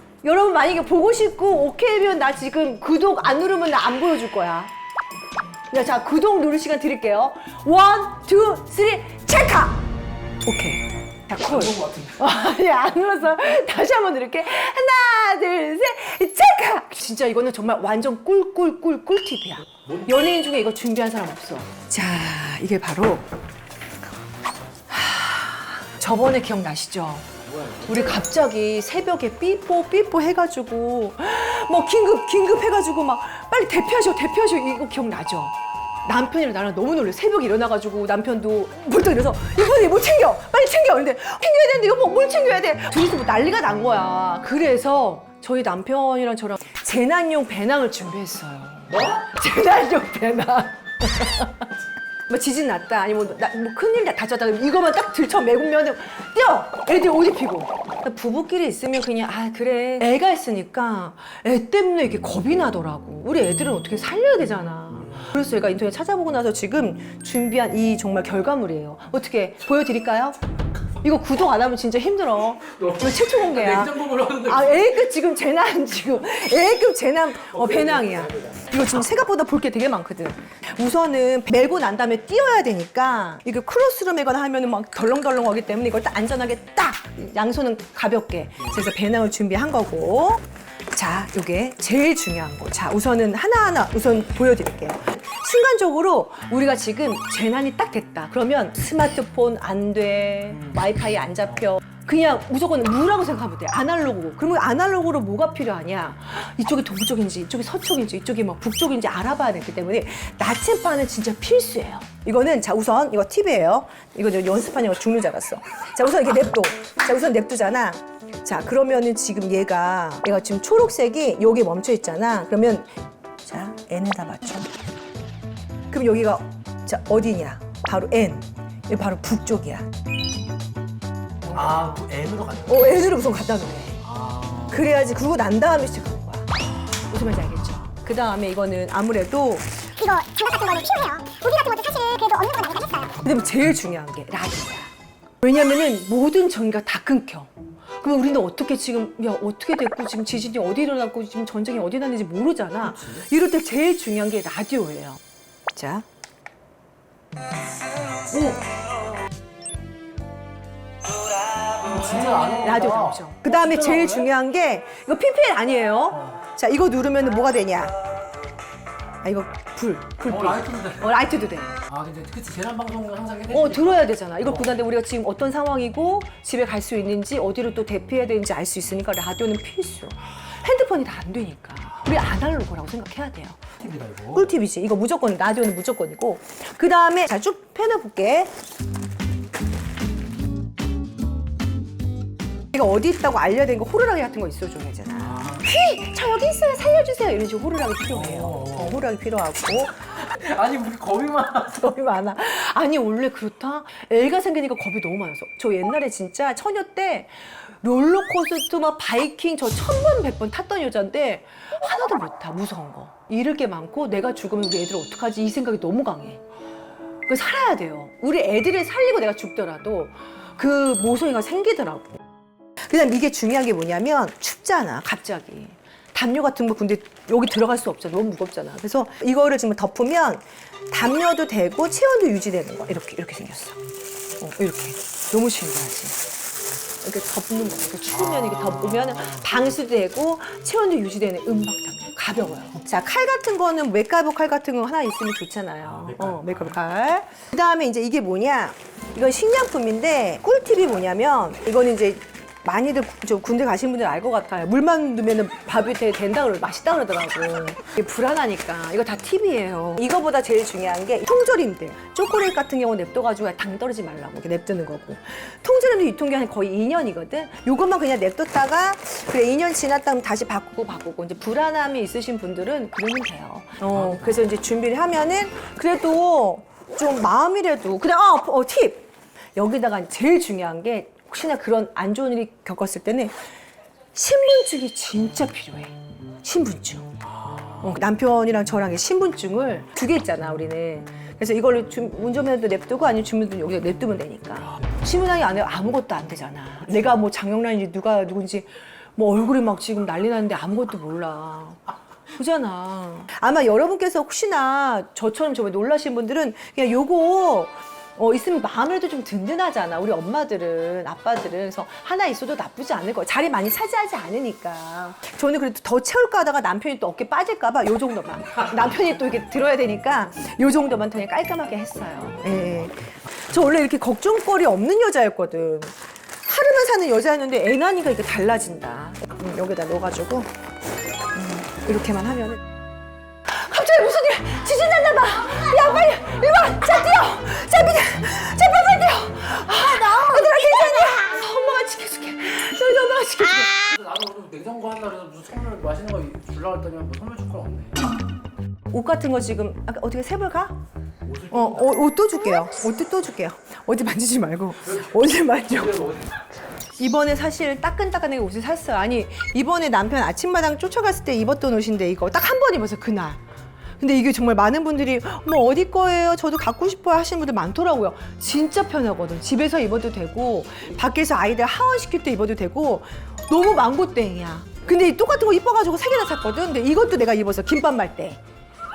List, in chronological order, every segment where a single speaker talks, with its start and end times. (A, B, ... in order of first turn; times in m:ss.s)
0:00.2-0:04.7 A
0:05.7-0:09.8 A
0:10.4-0:23.3 A
0:11.4-0:12.2 B
0:19.8-0:20.2 B
0:24.9-0:27.3 A
0:27.4-0:28.2 B
0:27.8-0:35.5 A
0:36.0-0:51.7 A
0:52.3-1:10.4 A
1:11.0-2:02.9 A
1:12.7-1:14.9 B
1:17.6-1:18.6 B
2:03.4-2:04.7 A
2:05.9-2:09.9 A
2:11.5-2:12.9 B
2:11.5-2:12.0 A
2:12.6-2:14.1 A
2:14.1-2:14.8 B
2:14.7-2:16.5 A
2:17.0-2:20.0 A
2:20.0-2:23.2 C
2:23.2-2:24.9 A
2:25.4-2:35.2 A
2:32.9-2:33.2 B
2:35.7-2:36.0 A
2:38.3-2:38.7 A
2:41.6-2:44.3 B
2:42.5-2:48.0 A
2:49.2-2:51.8 A
2:50.3-2:51.1 B
2:51.9-2:54.1 B
2:53.5-3:03.7 A
3:03.8-3:04.5 B
3:04.3-3:08.5 A
3:12.7-3:20.1 A
3:15.3-3:15.6 B
3:18.1-3:19.0 B
3:20.2-3:21.8 B
3:21.6-3:36.4 A
3:37.3-3:42.2 A
3:42.8-3:53.8 A
3:54.4-3:56.2 A
3:57.0-4:43.4 A
4:06.1-4:06.6 B
4:34.0-4:34.2 B
4:44.1-4:47.2 A
4:47.8-5:30.5 A
5:31.3-5:32.6 A
5:33.4-5:43.9 A
5:43.9-5:48.0 B
5:48.9-5:50.8 A
5:51.2-5:52.0 B
5:51.5-5:56.0 A
5:55.7-5:56.4 B
5:57.0-6:03.4 A
6:04.0-6:18.4 A